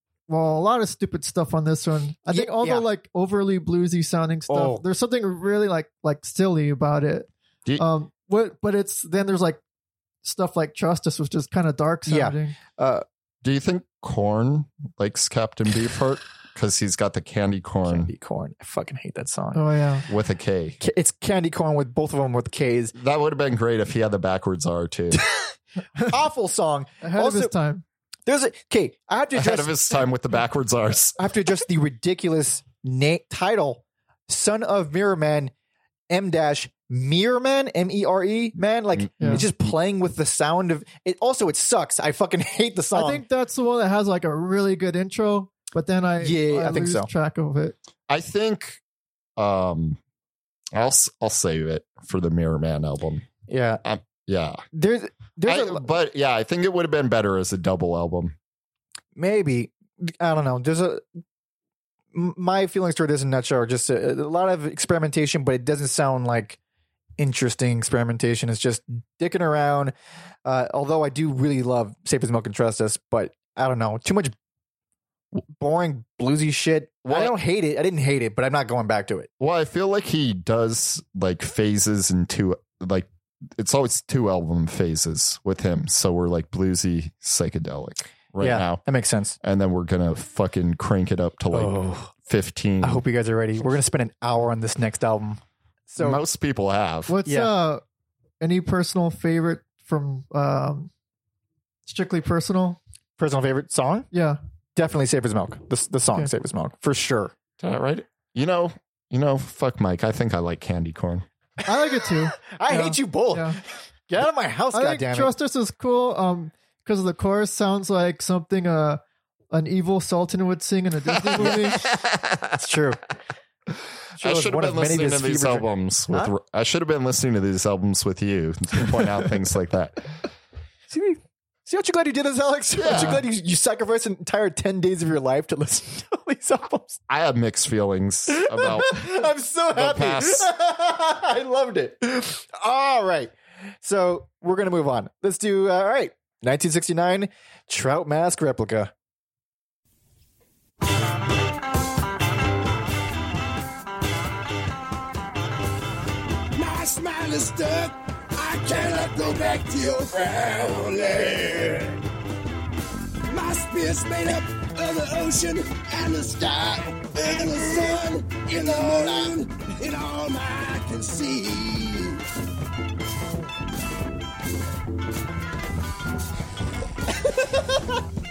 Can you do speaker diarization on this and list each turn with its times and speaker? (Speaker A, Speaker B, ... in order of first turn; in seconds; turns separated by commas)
Speaker A: 0.3-9.6, Speaker B: 2.3-2.8, Speaker B: 4.5-4.8, Speaker A: 10.2-12.6, Speaker B: 12.1-13.0, Speaker C: 13.4-18.1, Speaker B: 17.9-19.6, Speaker A: 19.5-20.1, Speaker C: 20.1-20.8, Speaker B: 20.8-22.9, Speaker C: 22.9-25.2, Speaker B: 26.0-27.5, Speaker A: 27.0-27.8, Speaker B: 28.2-30.0, Speaker C: 29.3-31.2, Speaker B: 31.2-35.5, Speaker B: 36.1-43.2, Speaker C: 39.0-39.5, Speaker A: 39.2-39.4, Speaker A: 42.9-47.8, Speaker B: 46.2-47.1, Speaker C: 48.1-48.8, Speaker C: 49.4-50.0, Speaker C: 50.7-53.3, Speaker B: 53.5-53.8, Speaker C: 53.8-54.6, Speaker B: 54.7-55.9, Speaker C: 55.5-58.3, Speaker B: 59.1-61.0, Speaker B: 62.1-66.6, Speaker B: 67.2-69.9, Speaker B: 70.4-74.3, Speaker B: 75.5-79.3, Speaker C: 77.0-77.3, Speaker C: 79.4-88.8, Speaker B: 88.4-89.3, Speaker C: 89.4-93.0, Speaker B: 91.5-92.1, Speaker B: 92.8-96.2, Speaker C: 96.0-97.1, Speaker A: 97.1-97.8, Speaker B: 97.2-97.5, Speaker A: 98.4-100.9, Speaker A: 101.9-102.8, Speaker B: 103.2-104.1, Speaker A: 104.1-104.4, Speaker B: 104.8-107.3, Speaker C: 107.6-111.2, Speaker A: 111.6-113.6, Speaker B: 112.1-113.5, Speaker B: 114.1-115.3, Speaker A: 114.7-119.0, Speaker A: 119.5-121.8, Speaker C: 121.3-122.6, Speaker B: 122.5-123.0, Speaker B: 124.2-126.3, Speaker C: 124.2-130.1, Speaker B: 130.9-137.0, Speaker C: 132.8-133.2, Speaker C: 137.1-139.1, Speaker B: 138.3-148.9, Speaker C: 139.7-140.5, Speaker D: 156.5-162.0, Speaker D: 163.3-172.2, Speaker B: 177.1-177.9